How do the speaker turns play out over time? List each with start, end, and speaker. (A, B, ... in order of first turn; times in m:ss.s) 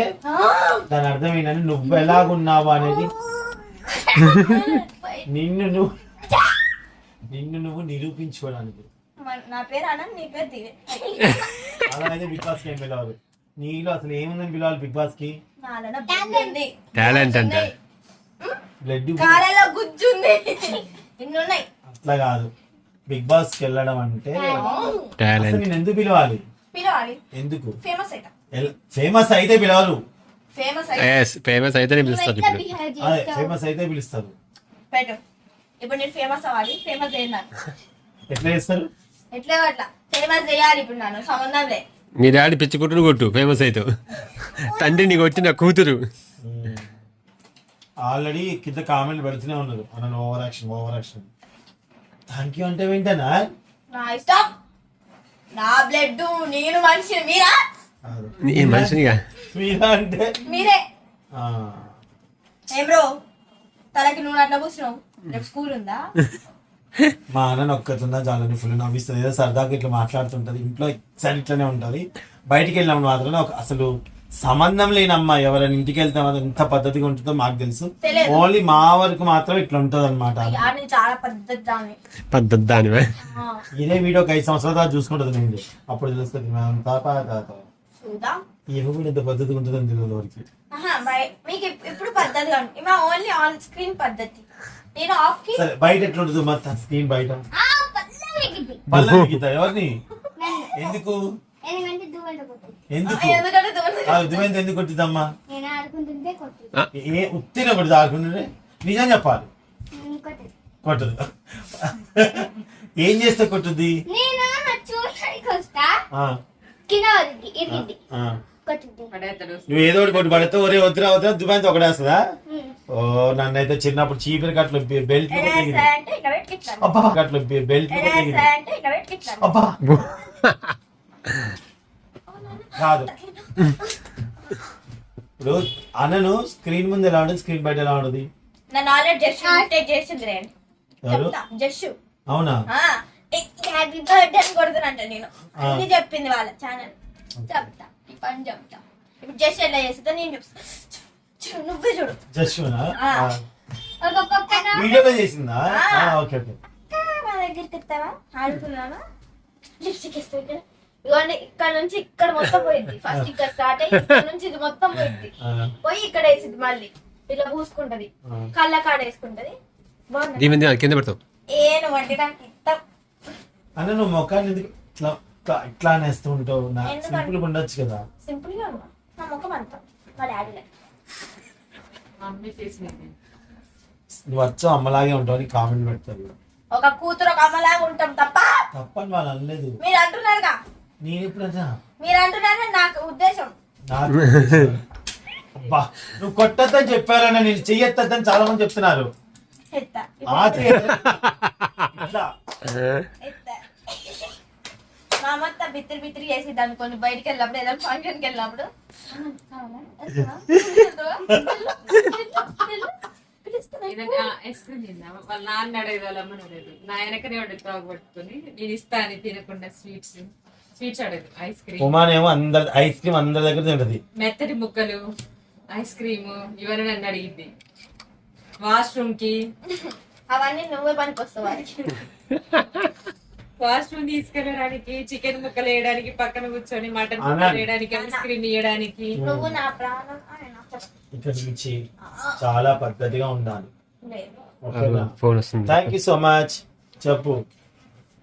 0:00.3-0:00.8 A
0:00.9-0:03.1 B
0:02.8-0:05.3 A
0:05.3-0:05.9 B
0:07.3-0:08.8 B
0:09.2-0:11.9 A
0:11.8-0:15.3 B
0:15.6-0:17.7 A
0:16.1-0:16.6 C
0:16.9-0:17.7 D
0:18.8-0:19.4 B
0:19.2-0:21.7 A
0:22.0-0:22.5 B
0:23.1-0:24.7 B
0:24.3-0:25.0 C
0:24.5-0:25.1 A
0:25.2-0:25.6 D
0:25.4-0:26.4 B
0:26.7-0:27.2 A
0:27.3-0:27.7 B
0:27.8-0:28.3 A
0:28.5-0:30.0 B
0:30.5-0:31.2 A
0:31.0-0:32.6 D
0:32.0-0:33.5 C
0:33.0-0:34.3 B
0:34.9-0:35.2 A
0:35.8-0:37.5 A
0:38.3-0:38.9 B
0:39.3-0:41.8 A
0:42.2-0:43.9 D
0:44.6-0:45.2 A
0:44.6-0:46.0 D
0:46.4-0:46.9 B
0:48.0-0:51.3 B
0:52.3-0:53.5 B
0:53.9-0:54.5 A
0:55.6-0:57.5 A
0:58.0-0:59.0 B
0:58.4-0:59.2 D
0:59.5-1:00.4 B
1:00.4-1:00.8 A
1:01.3-1:01.9 B
1:02.7-1:03.0 A
1:03.9-1:06.0 A
1:07.3-1:13.9 B
1:14.4-1:20.7 B
1:18.0-1:18.5 A
1:20.4-1:22.0 A
1:22.3-1:23.1 D
1:23.2-1:23.6 A
1:23.7-1:27.6 B
1:28.0-1:28.4 A
1:28.7-1:30.4 B
1:30.7-1:35.6 A
1:35.6-1:37.4 B
1:37.5-1:38.8 C
1:38.9-1:39.3 D
1:38.9-1:39.9 B
1:40.4-1:41.0 C
1:40.7-1:41.2 B
1:41.6-1:42.8 C
1:42.9-1:43.4 B
1:43.0-1:44.5 A
1:44.0-1:45.3 B
1:45.5-1:46.8 C
1:46.9-1:49.5 B
1:49.9-1:50.5 C
1:50.8-1:54.0 B
1:54.1-1:56.0 C
1:56.9-1:58.0 C
1:57.7-1:58.4 B
1:58.6-1:59.1 C
1:59.1-2:00.5 E
1:59.7-2:02.2 B
2:02.5-2:02.8 C
2:02.9-2:05.9 B
2:05.3-2:06.9 A
2:06.8-2:08.5 B
2:07.9-2:09.5 A
2:09.4-2:09.8 B
2:09.8-2:10.7 D
2:12.3-2:13.9 A
2:12.8-2:13.1 B
2:15.4-2:18.3 B
2:18.7-2:20.5 A
2:19.4-2:19.7 C
2:21.0-2:21.4 B
2:21.1-2:21.9 A
2:22.3-2:22.6 B
2:22.7-2:26.9 A
2:25.6-2:25.8 B
2:27.4-2:27.6 B
2:27.5-2:32.2 A
2:32.3-2:33.4 B
2:33.0-2:33.3 A
2:34.0-2:34.9 C
2:34.5-2:35.1 A
2:34.7-2:36.6 B
2:35.7-2:36.1 A
2:36.9-2:39.0 A
2:39.8-2:45.3 A
2:45.4-2:45.7 B
2:45.8-2:49.6 A
2:50.1-2:50.6 A
2:50.4-2:51.2 D
2:51.5-2:52.8 A
2:53.8-2:58.0 B
2:56.8-2:57.4 A
2:58.2-3:00.6 A
3:02.2-3:03.1 E
3:04.3-3:06.3 B
3:06.7-3:08.6 A
3:08.7-3:09.8 B
3:09.8-3:10.6 A
3:11.0-3:11.8 B
3:12.0-3:13.5 A
3:13.9-3:14.8 B
3:15.5-3:19.1 B
3:19.7-3:21.1 A
3:20.3-3:21.2 B
3:21.9-3:22.3 B
3:23.2-3:24.3 A
3:25.2-3:34.3 A
3:31.3-3:31.6 B
3:33.8-3:41.9 E
3:41.8-3:44.0 B
3:44.2-3:45.0 E
3:45.7-3:47.5 E
3:48.6-3:49.3 E
3:49.7-3:52.0 A
3:53.6-3:59.1 E
3:57.2-3:57.7 B
3:57.9-3:58.3 A
3:59.1-3:59.6 B
3:59.2-4:00.9 A
4:01.1-4:01.8 B
4:02.0-4:02.4 A
4:02.4-4:03.7 B
4:04.0-4:04.4 A
4:04.6-4:05.1 B
4:04.7-4:05.9 D
4:05.6-4:07.4 B